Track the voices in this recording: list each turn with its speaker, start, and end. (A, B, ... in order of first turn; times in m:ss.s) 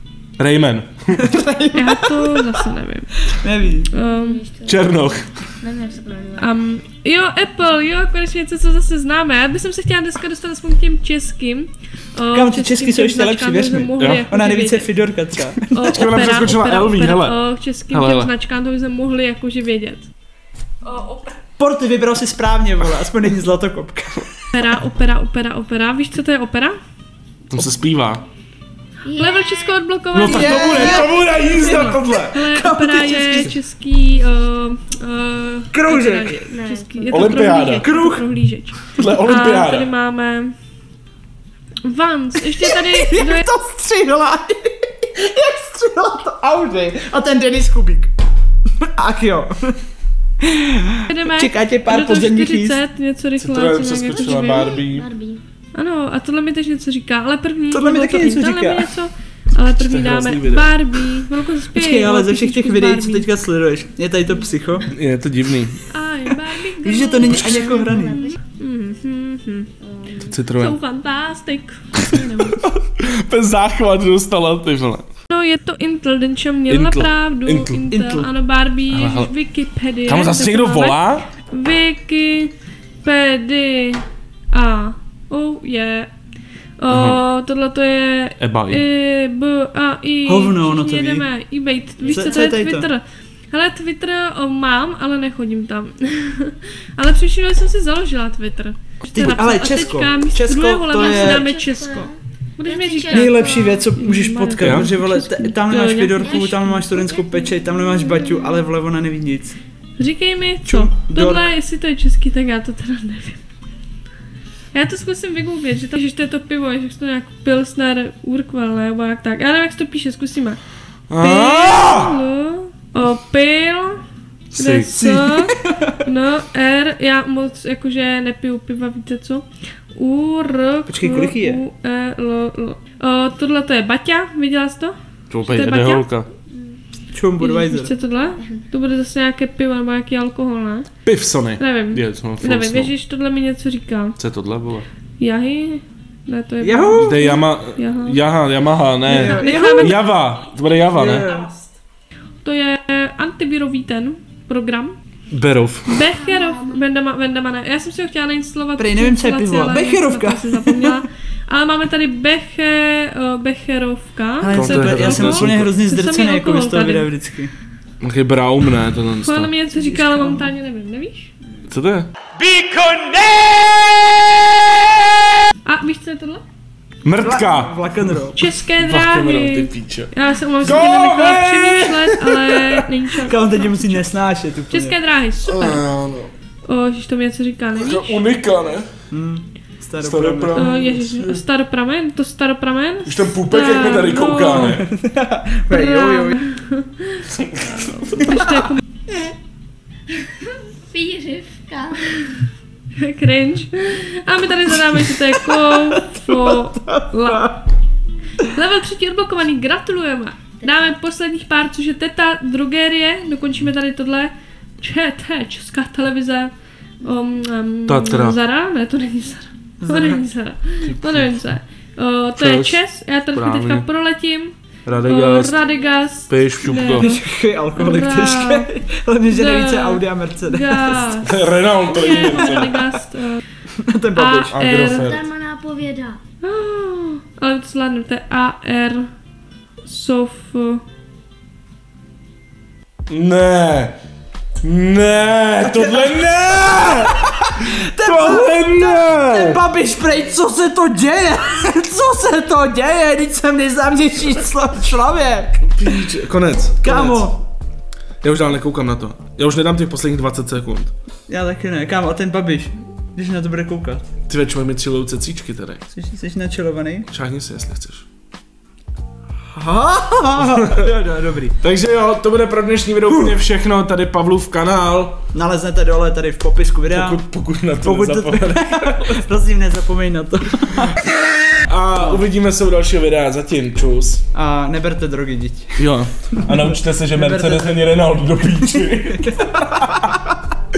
0:00.4-0:01.3 A
0:01.1-0:02.5 B
0:01.7-0:03.2 C
0:03.3-0:03.9 B
0:03.9-0:04.4 C
0:04.1-0:06.5 D
0:04.6-0:05.5 A
0:06.4-0:15.0 C
0:12.3-0:15.9 B
0:14.0-0:14.2 A
0:15.7-0:20.1 C
0:15.9-0:18.3 A
0:20.8-0:21.4 C
0:21.6-0:24.4 B
0:24.5-0:26.8 C
0:27.5-0:28.2 A
0:29.0-0:29.7 D
0:29.1-0:40.5 C
0:30.1-0:32.4 A
0:30.2-0:33.6 B
0:30.4-0:31.3 D
0:35.7-0:36.4 B
0:36.5-0:37.5 D
0:37.1-0:37.9 A
0:37.7-0:38.3 B
0:39.0-0:39.9 A
0:41.8-0:43.5 C
0:42.5-0:48.1 B
0:48.8-0:49.8 B
0:50.4-0:52.8 B
0:51.1-0:54.8 C
0:53.4-0:55.1 A
0:54.3-0:55.4 D
0:55.8-1:03.3 C
0:57.7-0:58.9 B
0:59.8-1:00.8 A
1:01.7-1:04.9 B
1:04.9-1:05.9 A
1:05.9-1:07.9 C
1:06.8-1:08.4 B
1:07.5-1:08.4 D
1:08.6-1:09.7 C
1:09.8-1:10.4 D
1:10.2-1:10.8 A
1:10.4-1:12.0 C
1:12.0-1:15.0 A
1:12.0-1:12.7 D
1:15.3-1:26.1 C
1:16.7-1:17.9 A
1:17.9-1:18.3 B
1:18.9-1:19.3 A
1:20.1-1:21.3 A
1:26.8-1:47.1 C
1:26.9-1:27.2 A
1:28.4-1:28.8 A
1:30.3-1:31.3 B
1:32.0-1:32.9 B
1:39.1-1:41.4 B
1:41.0-1:43.6 D
1:43.1-1:49.6 B
1:44.6-1:44.9 A
1:46.2-1:47.9 D
1:48.2-1:48.6 C
1:50.0-1:53.4 C
1:50.6-1:51.5 B
1:54.7-2:00.6 C
2:01.1-2:02.2 A
2:01.2-2:04.0 C
2:04.5-2:04.9 A
2:04.6-2:16.1 C
2:05.0-2:06.0 B
2:10.9-2:11.6 B
2:15.3-2:16.3 A
2:16.5-2:16.8 D
2:17.1-2:17.9 B
2:17.4-2:20.9 C
2:21.0-2:22.9 A
2:21.6-2:24.2 C
2:24.2-2:24.9 A
2:25.2-2:28.2 C
2:26.6-2:27.3 B
2:27.0-2:31.3 A
2:29.0-2:30.0 B
2:29.2-2:30.0 C
2:30.9-2:31.5 B
2:32.4-2:35.0 C
2:35.3-2:36.0 A
2:35.9-2:47.1 C
2:36.2-2:36.8 D
2:38.8-2:41.0 B
2:44.4-2:47.5 B
2:44.5-2:45.7 A
2:48.0-2:49.5 A
2:49.2-2:51.3 C
2:49.7-2:50.5 B
2:51.7-2:54.8 A
2:52.6-2:53.2 B
2:55.6-2:56.4 C
2:57.0-2:58.2 A
2:57.2-2:58.4 B
2:58.4-3:04.0 C
2:58.8-3:02.8 A
3:03.2-3:05.0 B
3:04.7-3:05.8 C
3:05.5-3:06.3 A
3:06.7-3:08.2 C
3:07.7-3:08.9 A
3:09.1-3:10.7 B
3:10.0-3:11.4 A
3:10.5-3:14.8 C
3:13.1-3:14.9 A
3:14.6-3:16.5 B
3:15.7-3:18.8 C
3:17.3-3:18.2 A
3:20.2-3:22.4 D
3:23.0-3:27.6 C
3:25.6-3:27.5 B
3:28.4-3:47.2 C
3:30.6-3:30.9 D
3:37.9-3:38.4 A
3:39.8-3:40.2 B
3:42.4-3:42.8 A
3:43.3-3:43.9 A
3:44.9-3:45.6 A
3:46.3-3:47.1 A
3:47.0-3:51.2 B
3:47.8-3:48.7 C
3:49.3-3:51.3 C
3:51.2-3:52.8 A
3:51.8-3:53.4 C
3:51.9-3:52.8 B
3:53.8-3:54.5 B
3:54.2-3:55.1 C
3:54.5-3:55.3 A
3:54.9-3:56.2 D
3:56.4-3:59.1 C
3:59.8-4:00.8 C
4:03.1-4:03.9 A
4:04.6-4:09.6 A
4:05.6-4:15.9 B
4:15.8-4:17.2 A
4:16.8-4:17.4 B
4:18.2-4:20.9 A
4:21.3-4:24.1 B
4:24.3-4:25.8 A
4:25.9-4:27.1 B
4:27.1-4:28.0 A
4:29.5-4:31.6 B
4:30.4-4:30.8 A
4:31.6-4:35.2 A
4:35.3-4:37.2 B
4:36.9-4:39.2 A
4:37.8-4:41.0 B
4:41.6-4:44.2 A
4:42.0-4:42.2 B
4:44.3-4:45.8 B
4:45.8-4:50.1 A
4:47.1-4:47.8 B
4:48.6-4:50.3 B